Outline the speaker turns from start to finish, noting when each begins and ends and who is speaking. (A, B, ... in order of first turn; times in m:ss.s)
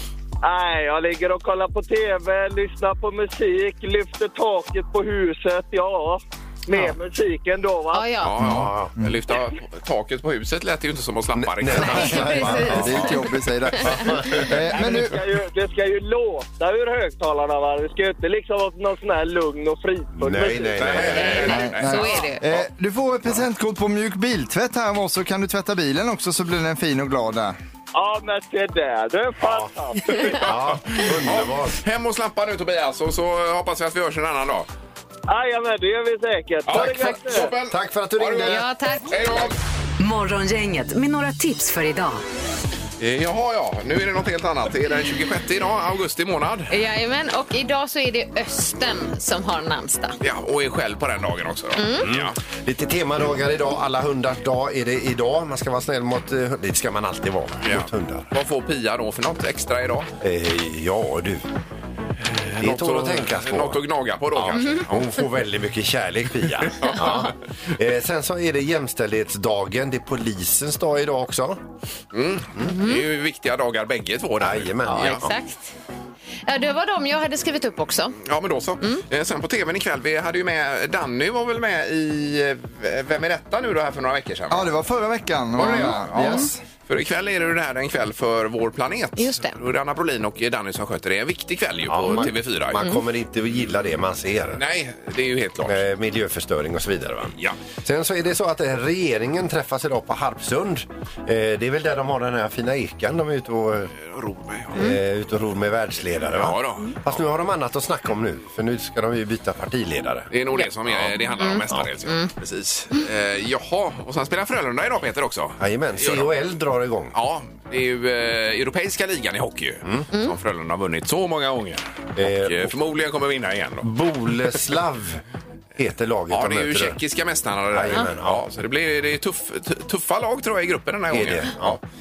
0:00.4-0:08.1 A
0:07.9-0:08.4 B
0:08.2-0:12.3 C
0:08.4-0:08.9 D
0:11.3-0:13.2 D
0:11.7-0:13.1 B
0:12.0-0:15.2 E
0:13.8-0:14.6 D
0:14.7-0:21.0 A
0:20.2-0:21.5 D
0:20.8-0:22.6 C
0:21.2-0:22.4 B
0:21.4-0:27.6 E
0:27.9-0:30.0 A
0:29.4-0:29.7 D
0:30.1-0:30.4 B
0:30.3-0:31.8 D
0:30.5-0:34.7 C
0:35.3-0:37.5 A
0:36.7-0:39.6 C
0:37.6-0:38.6 D
0:38.4-0:39.2 B
0:40.0-0:42.2 F
0:43.0-0:46.7 C
0:46.7-0:50.2 B
0:50.2-0:52.4 C
0:51.8-0:52.1 B
0:52.0-0:58.3 D
0:57.6-1:00.1 C
1:00.2-1:01.5 D
1:02.3-1:05.1 C
1:02.6-1:03.8 D
1:04.3-1:11.6 D
1:04.5-1:04.9 B
1:06.7-1:07.3 C
1:12.1-1:15.2 C
1:12.6-1:13.0 B
1:14.4-1:15.3 D
1:14.8-1:15.7 B
1:16.4-1:18.2 B
1:18.2-1:24.8 C
1:24.5-1:26.6 E
1:25.6-1:32.8 C
1:25.7-1:26.5 B
1:29.2-1:29.6 B
1:31.9-1:34.6 D
1:34.6-1:35.8 C
1:35.6-1:43.9 D
1:44.0-1:44.8 C
1:44.7-1:50.3 D
1:46.3-1:47.2 C
1:50.3-1:56.3 C
1:50.9-1:51.1 D
1:51.4-1:52.3 B
1:55.6-1:57.1 D
1:57.1-2:03.8 C
2:02.2-2:02.7 D
2:03.8-2:05.2 D
2:05.8-2:07.0 D
2:06.3-2:11.8 C
2:07.7-2:08.4 D
2:11.1-2:11.8 D